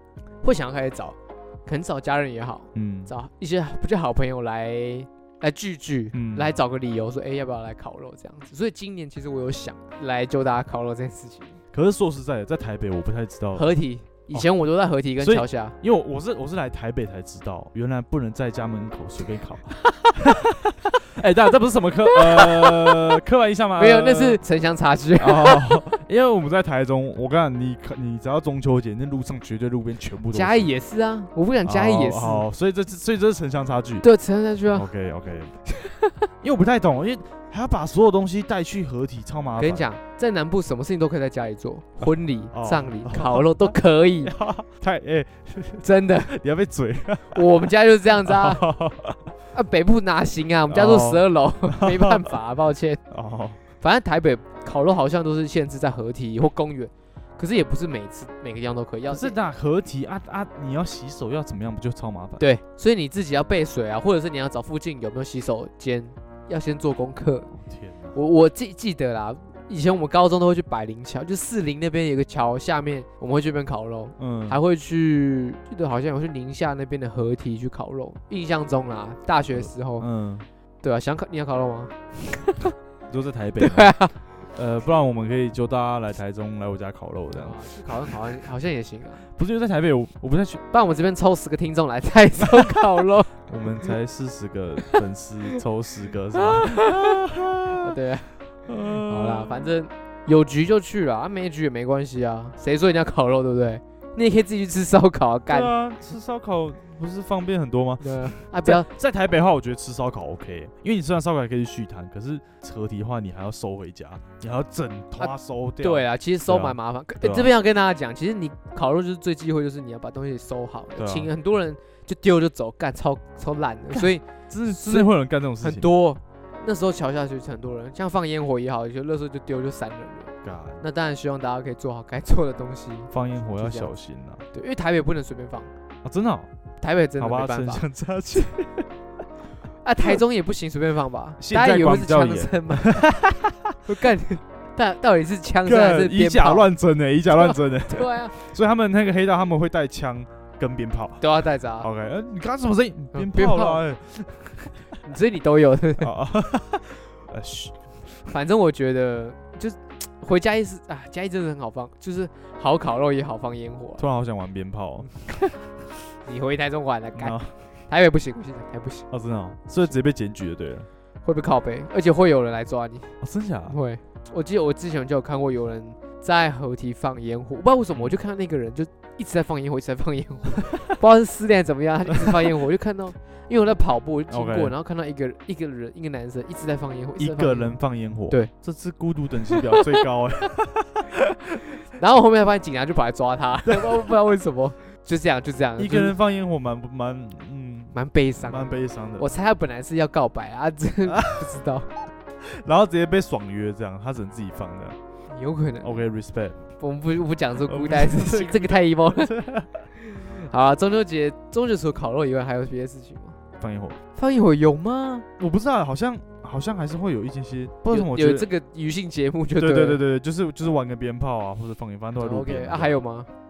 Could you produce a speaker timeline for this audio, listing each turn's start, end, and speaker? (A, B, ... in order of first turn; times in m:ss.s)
0:00.4-0:11.6 A
0:02.7-0:03.1 B
0:06.1-0:06.5 B
0:11.7-0:13.7 B
0:13.5-0:15.8 A
0:15.2-0:24.4 B
0:22.1-0:23.1 A
0:23.8-0:26.0 A
0:25.2-0:30.7 B
0:30.3-0:32.4 A
0:31.6-0:34.0 B
0:34.0-0:34.9 A
0:34.7-0:35.5 B
0:35.7-0:36.1 A
0:36.4-0:39.9 B
0:39.6-0:44.4 A
0:42.5-0:43.7 B
0:44.2-0:49.2 B
0:45.8-0:46.3 A
0:47.3-0:48.7 A
0:49.5-0:53.0 A
0:50.7-0:52.4 B
0:53.1-0:53.6 B
0:53.8-0:59.4 A
0:59.1-1:02.4 B
1:02.4-1:07.5 A
1:07.5-1:08.2 B
1:08.1-1:20.1 A
1:14.2-1:14.6 B
1:19.5-1:20.5 B
1:20.8-1:22.7 A
1:23.1-1:24.0 B
1:23.6-1:24.2 A
1:24.5-1:28.1 B
1:27.3-1:29.2 A
1:29.3-1:30.6 B
1:30.7-1:33.9 A
1:33.5-1:37.9 B
1:36.3-1:37.2 A
1:37.8-1:38.4 A
1:38.6-1:39.7 B
1:38.9-1:45.7 A
1:45.5-1:57.5 B
1:48.0-1:48.9 A
1:55.2-2:13.9 A
2:01.0-2:01.3 B
2:03.9-2:05.9 B
2:10.4-2:10.8 B
2:13.1-2:14.4 B
2:14.5-2:15.7 A
2:16.0-2:16.5 B
2:16.8-2:17.8 A
2:17.2-2:18.9 B
2:19.8-2:23.1 A
2:21.4-2:23.8 B
2:23.8-2:26.7 A
2:25.6-2:34.8 B
2:27.3-2:28.4 A
2:31.2-2:31.9 A
2:33.1-2:33.8 A
2:35.0-2:36.1 A
2:36.0-2:38.0 B
2:38.3-2:44.0 A
2:44.0-2:45.1 B
2:46.2-2:47.4 A
2:47.2-2:47.5 B
2:47.9-2:49.1 A
2:49.1-2:50.9 B
2:51.2-2:53.2 A
2:53.2-2:53.8 B
2:53.7-3:07.8 A
3:04.3-3:04.7 B
3:07.2-3:11.3 B
3:09.5-3:10.0 A
3:11.9-3:16.2 A
3:13.6-3:14.1 B
3:15.8-3:19.2 B
3:17.9-3:21.9 A
3:21.1-3:21.5 B
3:22.4-3:25.0 B
3:25.3-3:26.1 A
3:25.8-3:26.6 B
3:26.8-3:29.3 A
3:27.6-3:29.7 B
3:30.0-3:33.4 A
3:33.6-3:34.0 B
3:34.1-3:35.3 A
3:35.4-3:38.5 B
3:37.9-3:40.0 A
3:39.6-3:43.0 B
3:42.2-3:43.3 A